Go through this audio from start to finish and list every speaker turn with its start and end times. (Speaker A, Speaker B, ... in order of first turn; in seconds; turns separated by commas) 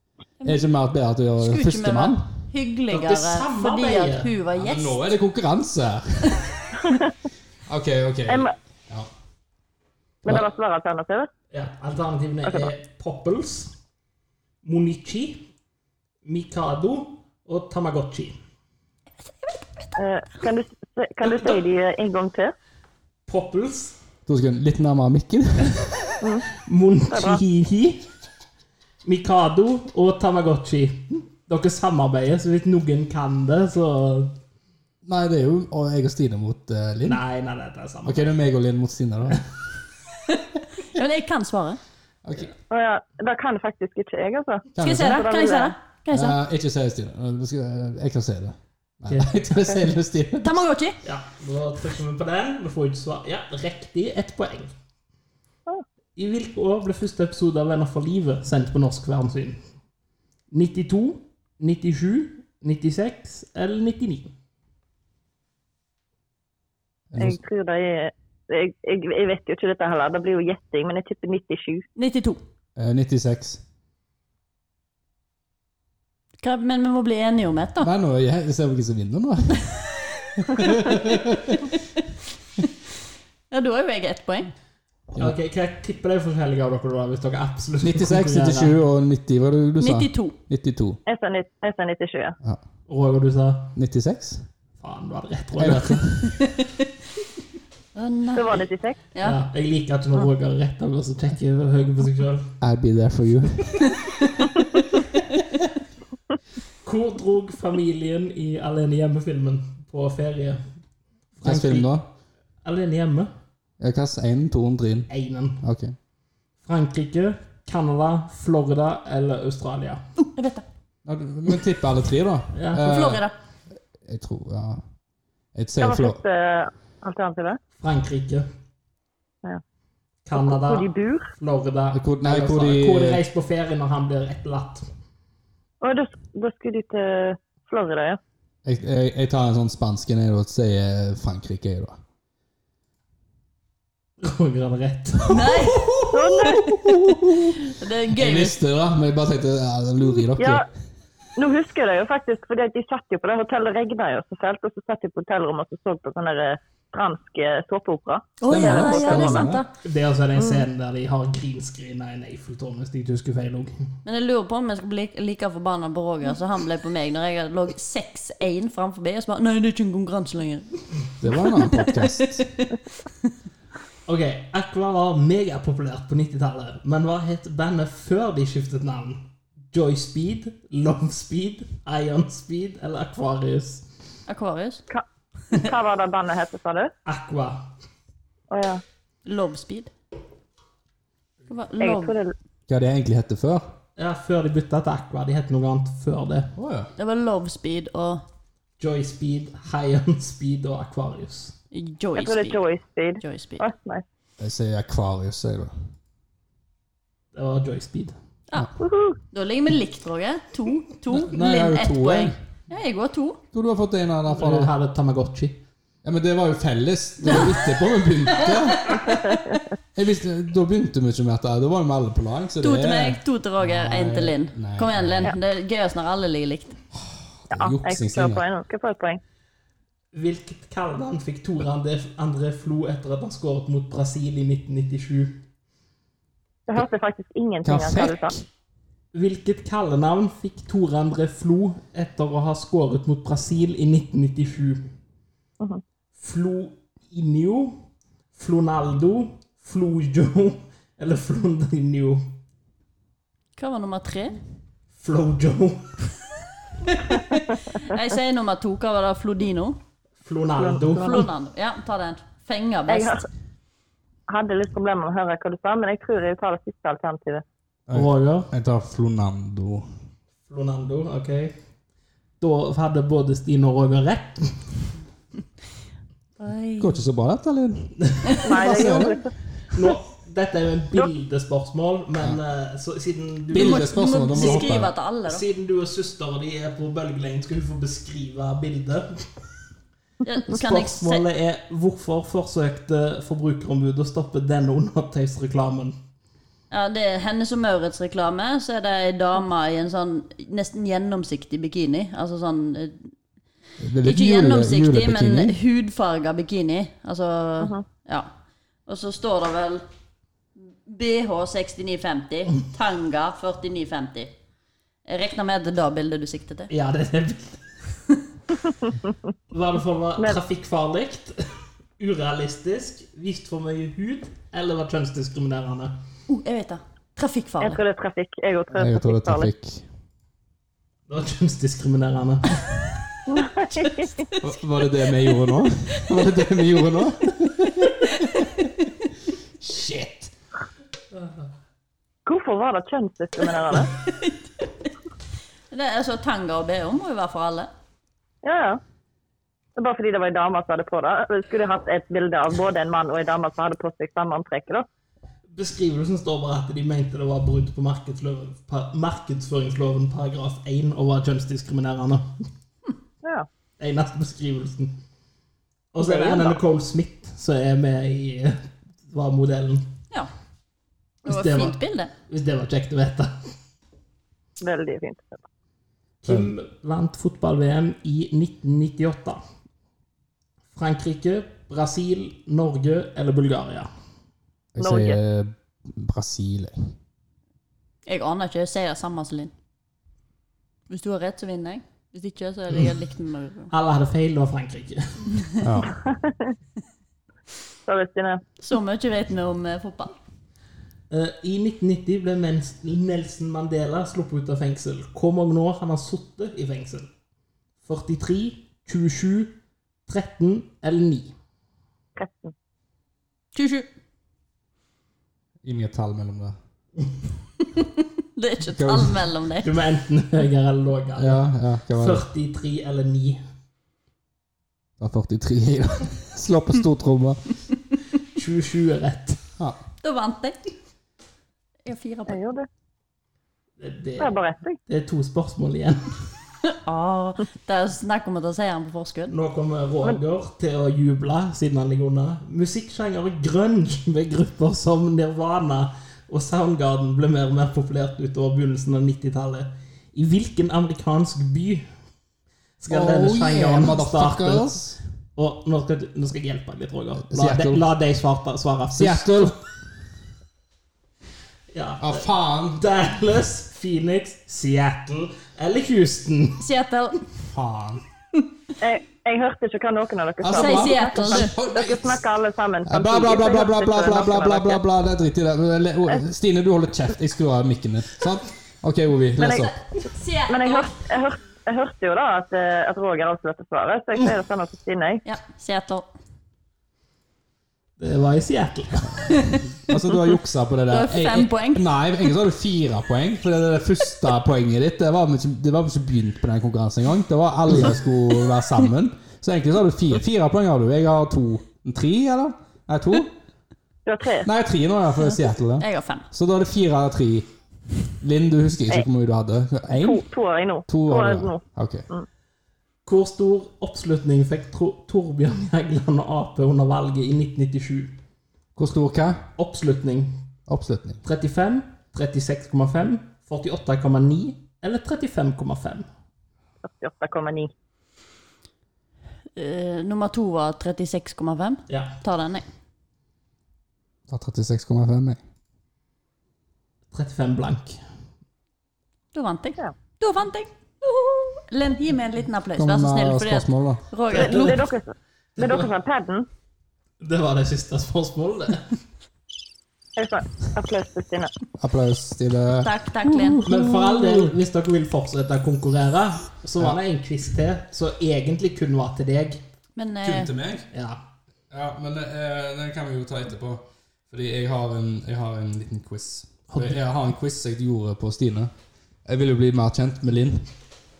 Speaker A: 0.4-2.5, Speaker B: 1.4-5.0, Speaker C: 2.9-4.3, Speaker A: 4.5-6.7, Speaker D: 6.8-7.1, Speaker A: 7.7-9.1, Speaker D: 8.3-8.5, Speaker D: 10.2-11.3, Speaker C: 11.5-13.7, Speaker D: 12.4-12.7, Speaker C: 14.6-15.4, Speaker C: 16.2-18.4, Speaker D: 19.9-22.5, Speaker C: 23.3-24.0, Speaker A: 24.2-26.1, Speaker C: 26.6-28.1, Speaker D: 27.1-27.4, Speaker C: 29.0-34.3, Speaker A: 35.0-37.2, Speaker C: 37.0-38.3, Speaker A: 38.0-39.4, Speaker B: 40.8-41.8, Speaker A: 42.2-42.5, Speaker D: 42.7-45.7, Speaker A: 44.7-45.2, Speaker B: 44.8-46.4, Speaker A: 46.1-50.6, Speaker C: 49.1-49.7, Speaker B: 50.4-51.0, Speaker C: 51.0-54.7, Speaker C: 56.1-59.6, Speaker C: 60.5-64.3, Speaker A: 67.1-67.4, Speaker D: 67.2-71.9, Speaker B: 72.0-72.4, Speaker A: 72.8-73.6, Speaker B: 76.4-77.9, Speaker A: 77.8-81.7, Speaker B: 83.5-84.5, Speaker C: 85.1-88.7, Speaker A: 87.8-91.0, Speaker B: 89.8-90.3, Speaker D: 91.0-92.4, Speaker C: 92.9-93.7, Speaker A: 93.8-94.5, Speaker C: 94.8-96.2, Speaker A: 95.5-96.3, Speaker B: 97.9-99.4, Speaker D: 98.3-99.0, Speaker C: 99.2-102.5, Speaker A: 102.6-103.9, Speaker C: 106.8-110.6, Speaker C: 111.3-111.9, Speaker A: 111.4-112.0, Speaker C: 112.6-113.3, Speaker A: 113.8-115.1, Speaker C: 115.1-115.6, Speaker A: 115.6-115.9, Speaker C: 116.6-120.0, Speaker B: 120.2-120.6, Speaker A: 121.0-123.2, Speaker C: 122.5-122.8, Speaker B: 122.8-123.3, Speaker A: 124.0-124.8, Speaker A: 125.5-126.2, Speaker D: 125.8-127.6, Speaker C: 127.8-128.5, Speaker C: 130.2-134.9, Speaker D: 130.3-131.3, Speaker A: 131.9-133.2, Speaker D: 135.8-138.2, Speaker A: 138.6-142.0, Speaker C: 144.2-147.4, Speaker B: 145.3-146.0, Speaker D: 146.1-146.7, Speaker B: 147.6-148.6, Speaker A: 148.1-150.7, Speaker D: 150.4-150.7, Speaker D: 151.3-159.5, Speaker B: 158.4-159.7, Speaker A: 158.5-159.6, Speaker C: 159.8-163.7, Speaker D: 160.3-160.7, Speaker B: 164.0-170.7, Speaker A: 171.2-172.4, Speaker B: 171.6-172.7, Speaker C: 174.1-183.8, Speaker B: 184.3-184.8, Speaker D: 184.9-186.9, Speaker C: 187.1-187.7, Speaker D: 188.5-188.8, Speaker B: 189.2-189.9, Speaker B: 191.5-192.2, Speaker D: 191.8-192.3, Speaker A: 192.7-193.7, Speaker C: 194.0-196.5, Speaker A: 196.6-196.9, Speaker B: 197.0-198.2, Speaker C: 198.8-201.5, Speaker B: 201.7-202.6, Speaker D: 202.2-204.0, Speaker B: 203.2-203.6, Speaker A: 204.4-205.7, Speaker C: 207.3-208.1, Speaker D: 208.8-209.2, Speaker B: 209.3-213.4, Speaker A: 211.1-212.4, Speaker A: 213.5-214.7, Speaker C: 214.3-215.6, Speaker A: 216.0-219.1, Speaker D: 219.2-219.6, Speaker A: 219.9-225.3, Speaker B: 222.6-226.8, Speaker A: 227.0-228.4, Speaker D: 227.5-229.2, Speaker C: 230.1-235.4, Speaker D: 236.7-238.3, Speaker A: 237.6-238.4, Speaker C: 239.1-244.8, Speaker C: 246.2-247.8, Speaker C: 248.3-252.2, Speaker B: 253.6-254.4, Speaker C: 254.9-256.1, Speaker C: 256.9-257.3, Speaker B: 257.7-259.8, Speaker C: 260.2-261.3, Speaker D: 260.6-261.2, Speaker B: 261.0-263.2, Speaker D: 262.9-263.2, Speaker D: 264.3-267.4, Speaker A: 267.9-269.9, Speaker C: 267.9-268.5, Speaker C: 270.5-271.6, Speaker C: 272.4-274.8, Speaker B: 276.4-276.9, Speaker A: 276.8-279.2, Speaker D: 278.4-279.3, Speaker C: 279.7-289.2, Speaker A: 283.5-284.9, Speaker B: 283.5-285.4, Speaker B: 290.2-291.2, Speaker C: 290.5-296.0, Speaker B: 296.7-303.1, Speaker A: 303.8-305.6, Speaker B: 304.0-308.3, Speaker B: 308.9-309.8, Speaker B: 310.8-314.3, Speaker B: 315.0-316.7, Speaker C: 316.7-317.7, Speaker C: 319.5-321.4, Speaker C: 322.0-325.9, Speaker B: 326.3-327.8, Speaker D: 327.6-329.5, Speaker A: 328.7-329.9, Speaker C: 331.1-332.7, Speaker D: 333.3-334.1, Speaker A: 334.4-338.6, Speaker A: 339.6-340.3, Speaker D: 342.2-343.9, Speaker B: 343.9-344.7, Speaker B: 345.7-347.7, Speaker D: 348.4-348.8, Speaker D: 349.8-354.9, Speaker C: 355.5-362.4, Speaker C: 363.8-365.0, Speaker C: 365.9-369.9, Speaker D: 366.0-366.6, Speaker B: 371.2-372.1, Speaker C: 371.2-373.5, Speaker D: 374.6-375.4, Speaker C: 376.2-379.4, Speaker A: 376.3-376.5, Speaker C: 380.7-383.9, Speaker A: 384.7-386.9, Speaker D: 384.8-385.2, Speaker B: 388.1-389.5, Speaker B: 390.9-393.7, Speaker C: 393.7-395.4, Speaker A: 395.6-396.0, Speaker D: 396.0-396.5, Speaker D: 397.9-398.4, Speaker B: 398.6-400.1, Speaker C: 401.1-407.1, Speaker C: 407.8-411.3, Speaker D: 412.1-412.5, Speaker B: 413.5-413.9, Speaker A: 415.6-416.6, Speaker B: 417.8-419.7, Speaker A: 418.7-419.2, Speaker C: 419.6-423.4, Speaker A: 421.1-422.2, Speaker A: 425.0-427.4, Speaker C: 428.3-429.4, Speaker B: 430.0-430.6, Speaker B: 431.9-432.4, Speaker D: 432.3-432.7, Speaker C: 433.8-436.2, Speaker D: 434.2-434.8, Speaker B: 436.7-439.3, Speaker C: 439.3-451.9, Speaker C: 452.8-454.8, Speaker A: 452.9-455.0, Speaker C: 455.4-459.5, Speaker A: 457.2-457.8, Speaker A: 458.9-459.6, Speaker C: 461.7-466.6, Speaker A: 462.0-462.8, Speaker B: 466.6-467.2, Speaker A: 467.5-468.0, Speaker D: 468.8-474.8, Speaker A: 470.4-472.2, Speaker B: 470.5-471.5, Speaker A: 472.8-479.7, Speaker D: 479.4-479.7, Speaker B: 480.1-480.9, Speaker D: 480.5-485.2, Speaker B: 485.2-486.1, Speaker C: 488.0-489.5, Speaker A: 489.7-503.3, Speaker B: 490.9-491.8, Speaker D: 504.1-504.5, Speaker A: 504.4-507.5, Speaker B: 505.8-506.3, Speaker A: 508.2-510.2, Speaker D: 509.9-512.3, Speaker A: 510.9-512.0, Speaker C: 513.0-518.2, Speaker A: 518.8-519.5, Speaker C: 519.6-520.3, Speaker A: 520.7-521.2, Speaker C: 521.2-526.0, Speaker D: 526.8-527.7, Speaker B: 529.5-532.6, Speaker C: 531.9-532.1, Speaker A: 534.3-535.4, Speaker C: 537.1-538.0, Speaker B: 539.3-544.8, Speaker A: 542.8-544.0, Speaker C: 544.3-544.8, Speaker D: 544.3-546.5, Speaker C: 545.6-545.9, Speaker C: 547.2-548.9, Speaker D: 550.1-551.5, Speaker A: 551.8-554.5, Speaker B: 552.8-553.6, Speaker C: 553.6-559.6, Speaker B: 560.0-560.5, Speaker A: 560.2-560.9, Speaker C: 560.9-561.2, Speaker A: 561.7-568.7, Speaker C: 566.7-567.0, Speaker A: 569.2-570.7